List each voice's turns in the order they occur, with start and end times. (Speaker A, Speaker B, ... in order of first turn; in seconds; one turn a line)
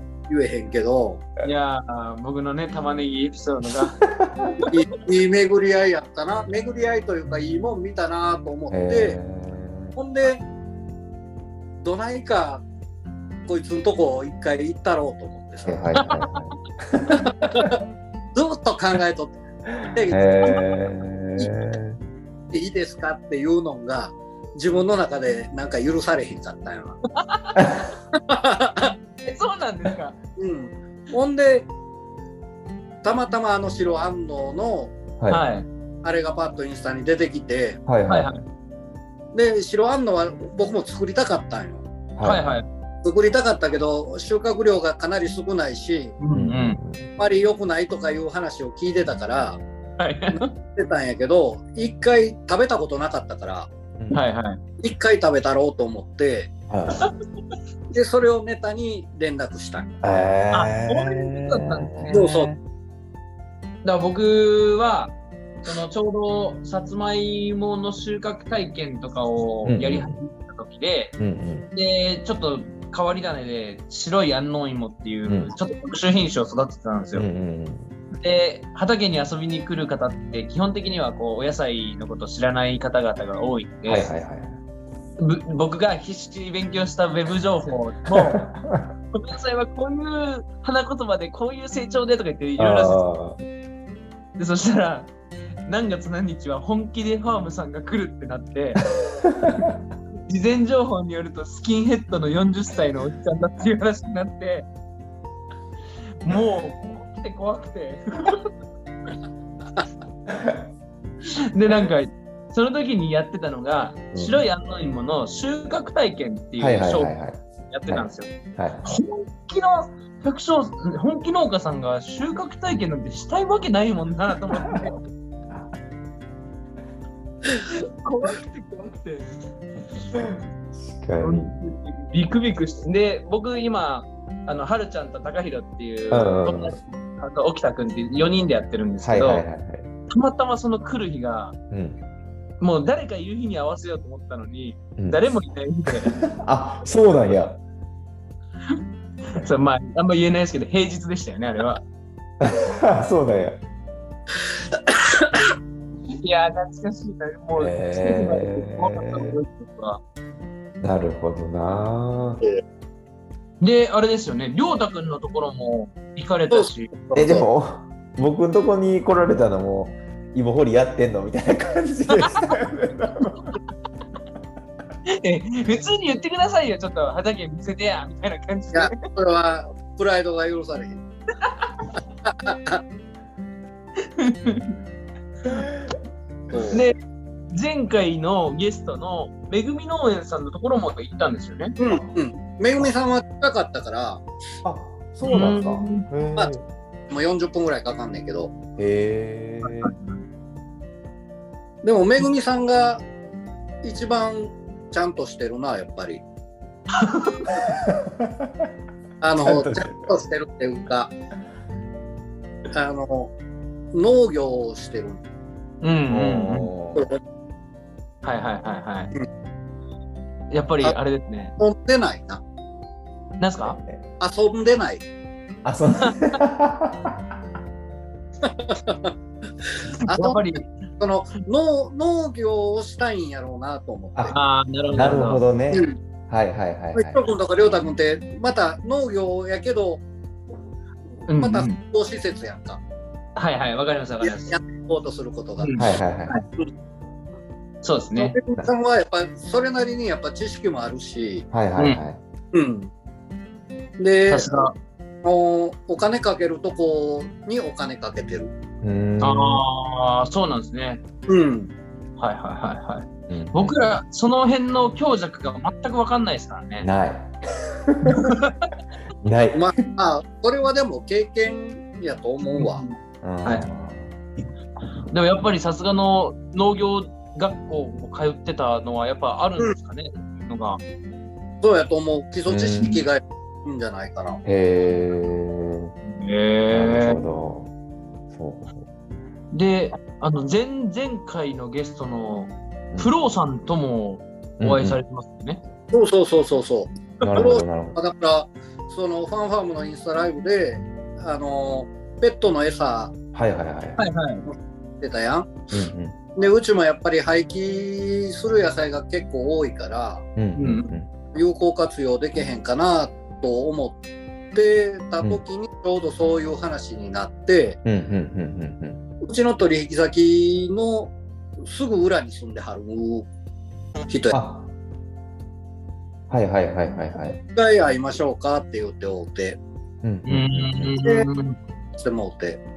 Speaker A: 0.3-1.2
Speaker B: 1.4-4.0
Speaker C: 4.0-4.5
Speaker A: 4.7-9.2
Speaker C: 8.7-9.9
Speaker A: 9.9-10.4
Speaker A: 11.8-12.6
Speaker A: 13.5-15.9
Speaker C: 15.7-17.6
Speaker B: 16.0-16.3
Speaker A: 17.3-17.8
Speaker A: 18.3-20.7
Speaker C: 20.1-22.0
Speaker A: 22.5-27.0
Speaker B: 27.2-27.7
Speaker A: 28.1-28.9
Speaker B: 29.2-30.2
Speaker A: 30.4-31.7
Speaker A: 33.0-34.9
Speaker B: 35.3-35.7
Speaker A: 36.0-37.8
Speaker C: 37.9-38.4
Speaker B: 38.1-38.4
Speaker A: 39.3-41.8
Speaker C: 42.1-42.6
Speaker B: 42.2-42.7
Speaker A: 43.0-46.2
Speaker B: 46.2-46.8
Speaker C: 46.3-47.0
Speaker A: 47.2-49.6
Speaker B: 50.0-50.5
Speaker A: 50.3-53.7
Speaker B: 54.1-54.6
Speaker A: 54.8-56.5
Speaker C: 56.7-57.1
Speaker A: 57.9-60.0
Speaker C: 60.0-62.6
Speaker B: 60.5-62.3
Speaker A: 62.1-62.5
Speaker B: 63.8-65.1
Speaker B: 65.6-71.2
Speaker C: 69.7-70.2
Speaker C: 71.2-71.7
Speaker B: 71.7-77.3
Speaker C: 75.3-75.5
Speaker C: 77.1-77.9
Speaker B: 78.1-84.1
Speaker C: 83.8-84.6
Speaker B: 85.2-88.5
Speaker C: 88.1-88.9
Speaker B: 89.1-93.0
Speaker C: 92.6-93.4
Speaker B: 94.4-95.1
Speaker B: 95.7-98.8
Speaker C: 99.2-99.8
Speaker B: 100.3-104.7
Speaker B: 106.2-108.5
Speaker C: 110.3-110.6
Speaker B: 111.3-117.2
Speaker C: 114.1-114.4
Speaker C: 116.6-118.9
Speaker B: 117.7-118.3
Speaker B: 118.8-125.0
Speaker B: 127.6-129.3
Speaker C: 130.1-131.6
Speaker B: 131.2-139.4
Speaker C: 136.1-136.8
Speaker C: 139.0-139.9
Speaker B: 140.1-141.6
Speaker C: 141.7-142.0
Speaker B: 142.6-146.2
Speaker C: 145.0-145.3
Speaker C: 146.1-147.6
Speaker B: 149.3-151.8
Speaker C: 152.4-153.6
Speaker A: 154.8-155.4
Speaker B: 156.2-160.0
Speaker C: 157.6-159.3
Speaker C: 160.8-162.4
Speaker B: 163.6-166.9
Speaker A: 166.5-167.5
Speaker C: 167.1-173.4
Speaker B: 175.1-179.0
Speaker A: 178.7-181.0
Speaker B: 181.5-181.9
Speaker A: 182.2-182.8
Speaker B: 184.0-184.7
Speaker A: 186.5-186.8
Speaker B: 187.5-191.8
Speaker A: 191.8-194.2
Speaker C: 194.6-196.7
Speaker B: 195.2-196.1
Speaker A: 197.1-198.5
Speaker C: 198.8-199.9
Speaker B: 199.6-200.2
Speaker A: 201.8-203.0
Speaker A: 203.8-206.2
Speaker B: 206.9-207.5
Speaker C: 207.5-208.7
Speaker A: 209.2-211.1
Speaker C: 209.4-210.0
Speaker A: 212.7-213.3
Speaker A: 213.9-215.2
Speaker B: 215.8-216.7
Speaker C: 216.1-217.1
Speaker B: 218.2-219.1
Speaker B: 220.5-221.6
Speaker A: 221.6-222.4
Speaker B: 223.4-223.8
Speaker C: 223.6-224.0
Speaker A: 224.2-225.0
Speaker C: 225.6-227.3
Speaker A: 228.4-229.1
Speaker A: 230.1-230.4
Speaker B: 230.1-230.7
Speaker A: 231.0-234.3
Speaker B: 234.3-235.4
Speaker C: 234.9-237.2
Speaker A: 236.9-240.0
Speaker B: 241.3-241.8
Speaker A: 241.3-242.8
Speaker B: 243.3-244.6
Speaker A: 244.2-245.8
Speaker B: 245.6-246.4
Speaker C: 245.8-246.4
Speaker B: 247.8-248.3
Speaker A: 248.2-251.4
Speaker C: 251.5-252.2
Speaker A: 252.5-252.9
Speaker A: 254.0-254.7
Speaker B: 254.3-254.7
Speaker A: 255.2-258.5
Speaker C: 258.8-259.6
Speaker B: 259.2-261.0
Speaker A: 261.3-261.7
Speaker B: 262.2-266.9
Speaker C: 263.3-263.8
Speaker C: 266.8-268.2
Speaker B: 268.0-268.7
Speaker C: 269.2-269.7
Speaker A: 269.5-272.8
Speaker B: 272.6-273.7
Speaker C: 273.2-274.1
Speaker B: 275.1-280.8
Speaker A: 281.6-284.4
Speaker C: 282.5-283.0
Speaker C: 284.4-285.9
Speaker B: 286.0-287.2
Speaker C: 286.7-287.7
Speaker C: 288.3-288.9
Speaker B: 289.5-295.6
Speaker C: 294.6-295.0
Speaker A: 295.9-303.1
Speaker C: 297.2-298.0
Speaker C: 303.3-304.0
Speaker B: 304.0-304.4
Speaker A: 304.5-305.6
Speaker C: 305.7-306.2
Speaker A: 306.4-310.2
Speaker C: 310.4-311.1
Speaker B: 310.6-310.9
Speaker A: 311.3-314.0
Speaker A: 314.5-317.8
Speaker C: 317.8-319.0
Speaker A: 319.2-323.3
Speaker A: 324.1-324.4
Speaker C: 324.3-324.7
Speaker C: 326.3-327.4
Speaker A: 327.5-329.6
Speaker C: 330.0-331.0
Speaker B: 330.3-331.6
Speaker A: 331.9-332.6